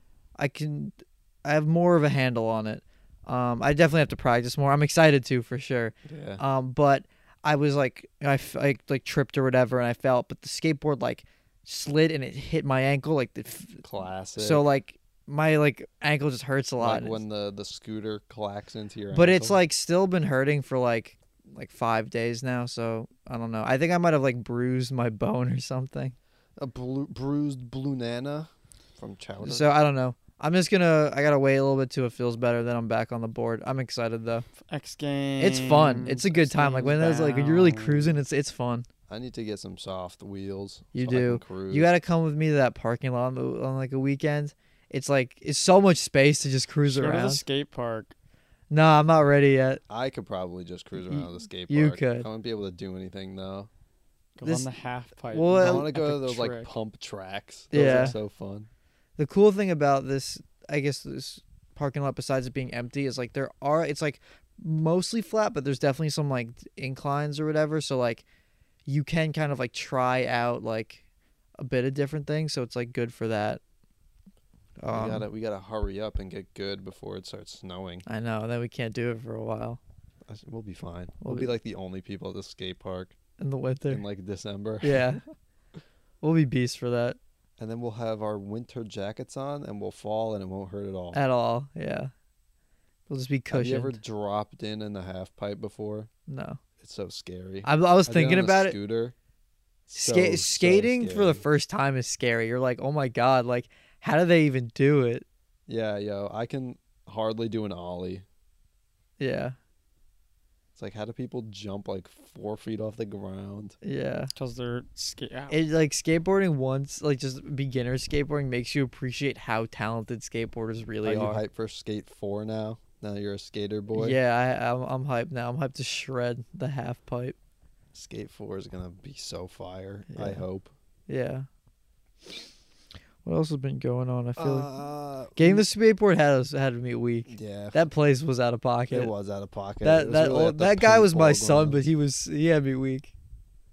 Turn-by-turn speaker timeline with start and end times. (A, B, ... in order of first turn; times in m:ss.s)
0:00.4-0:13.8 A
0:06.1-0:06.4 B
0:13.8-0:14.6 B
0:14.4-0:17.2 A
0:16.8-0:19.6 B
0:19.1-0:26.2 A
0:26.6-0:29.7 B
0:29.4-0:34.4 A
0:34.7-0:38.2 C
0:35.4-0:38.9 A
0:39.1-0:41.9 B
0:40.9-0:47.4 A
0:46.9-0:48.1 C
0:48.7-0:49.8 A
0:49.9-0:53.7 B
0:51.1-0:52.3 A
0:54.4-0:56.7 C
0:55.3-0:55.9 A
0:55.6-0:58.7 B
0:57.7-0:58.2 A
0:57.7-0:58.1 C
0:59.2-1:08.2 A
1:08.8-1:11.0 A
1:11.6-1:13.6 A
1:14.8-1:15.3 A
1:14.9-1:18.1 B
1:18.1-1:19.8 A
1:20.3-1:23.1 B
1:21.2-1:21.5 A
1:23.4-1:24.0 A
1:23.9-1:25.1 B
1:24.8-1:25.2 A
1:26.2-1:27.2 A
1:27.6-1:31.2 B
1:31.1-1:32.1 A
1:33.1-1:34.0 A
1:33.5-1:36.1 B
1:36.3-1:36.6 A
1:36.8-1:39.1 B
1:37.6-1:38.8 A
1:39.9-1:41.4 B
1:39.9-1:45.3 A
1:45.7-1:48.3 B
1:49.2-1:49.6 A
1:50.8-1:53.7 B
1:53.8-1:54.3 A
1:54.4-1:55.6 C
1:55.5-2:01.4 A
2:01.0-2:04.2 B
2:03.9-2:07.4 A
2:07.9-2:10.7 B
2:10.1-2:10.4 A
2:11.1-2:11.5 A
2:13.2-2:14.7 A
2:14.4-2:15.6 B
2:15.4-2:19.1 A
2:17.3-2:17.8 B
2:18.9-2:21.8 B
2:19.8-2:23.1 A